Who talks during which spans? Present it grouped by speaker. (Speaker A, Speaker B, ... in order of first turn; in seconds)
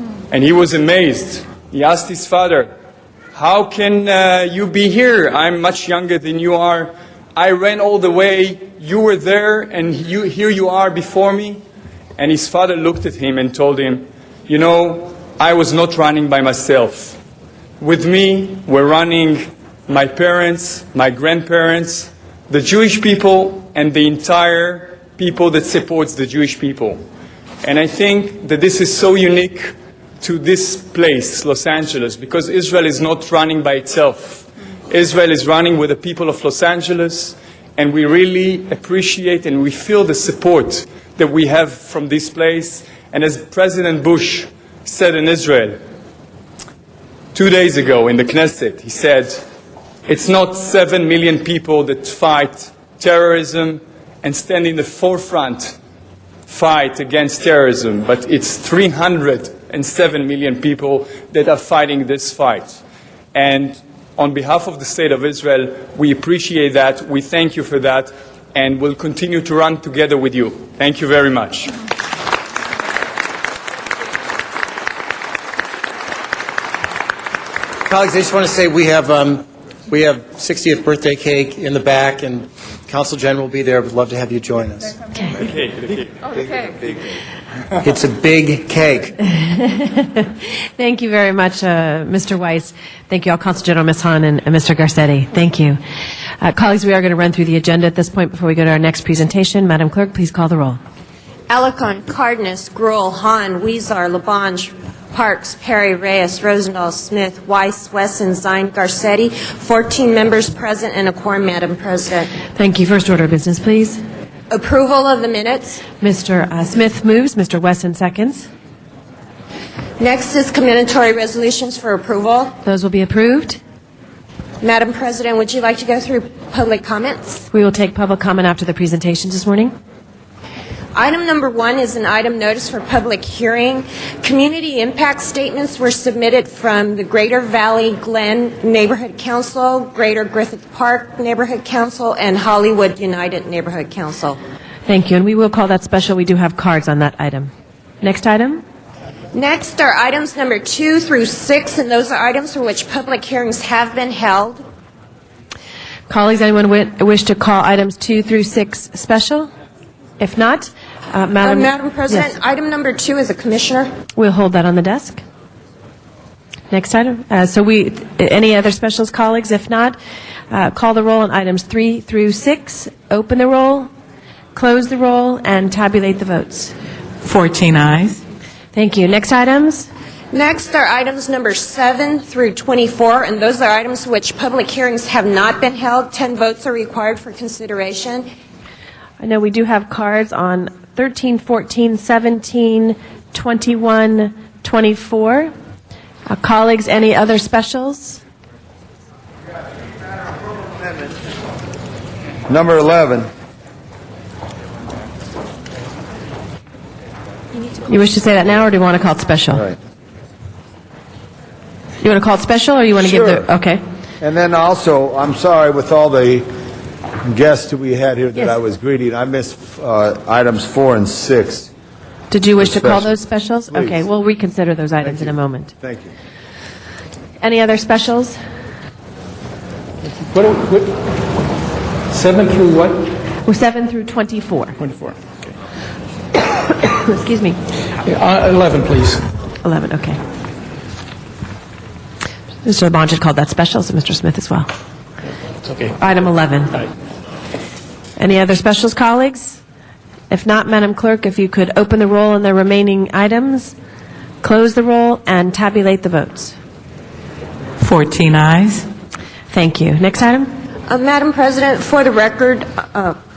Speaker A: 0.3-2.7, 3.4-11.6, 12.2-17.2, 17.8-27.0, 27.6-45.8, 47.3-49.4, 50.1-55.8, 56.5-62.8, 63.3-71.8
Speaker B: 77.9-85.0, 87.8-89.2
Speaker C: 89.4-90.3, 90.8-95.8, 96.4-100.8, 112.5-114.0, 116.0-118.5, 122.6-123.6, 127.5-129.7, 144.8-147.5, 148.0-148.6, 156.1-159.5, 160.2-162.3, 164.2-165.2, 166.7-169.9, 170.5-173.9, 174.5-176.7, 178.7-179.9, 189.2-195.5, 196.3-198.2, 207.9-209.7, 212.0-213.8, 222.3-225.7, 227.4-228.4, 233.4-234.8, 236.8-237.6, 239.6-240.2, 242.6-244.7, 246.0-246.8, 248.2-249.6, 250.3-253.7, 254.4-256.6, 259.5-260.5
Speaker D: 101.5-112.3, 114.5-115.8, 120.0-122.5, 124.6-127.4, 130.9-144.4, 149.3-154.6, 161.4-163.9, 180.3-188.3, 260.9-263.1
Speaker E: 177.2-178.2, 257.8-258.9
Speaker F: 202.5-203.3, 213.0-213.4, 214.2-216.5, 217.2-221.7, 222.6-223.2, 223.7-224.0, 225.0-226.1
Speaker G: 230.0-231.0, 232.1-233.1, 234.8-235.2, 238.0-239.3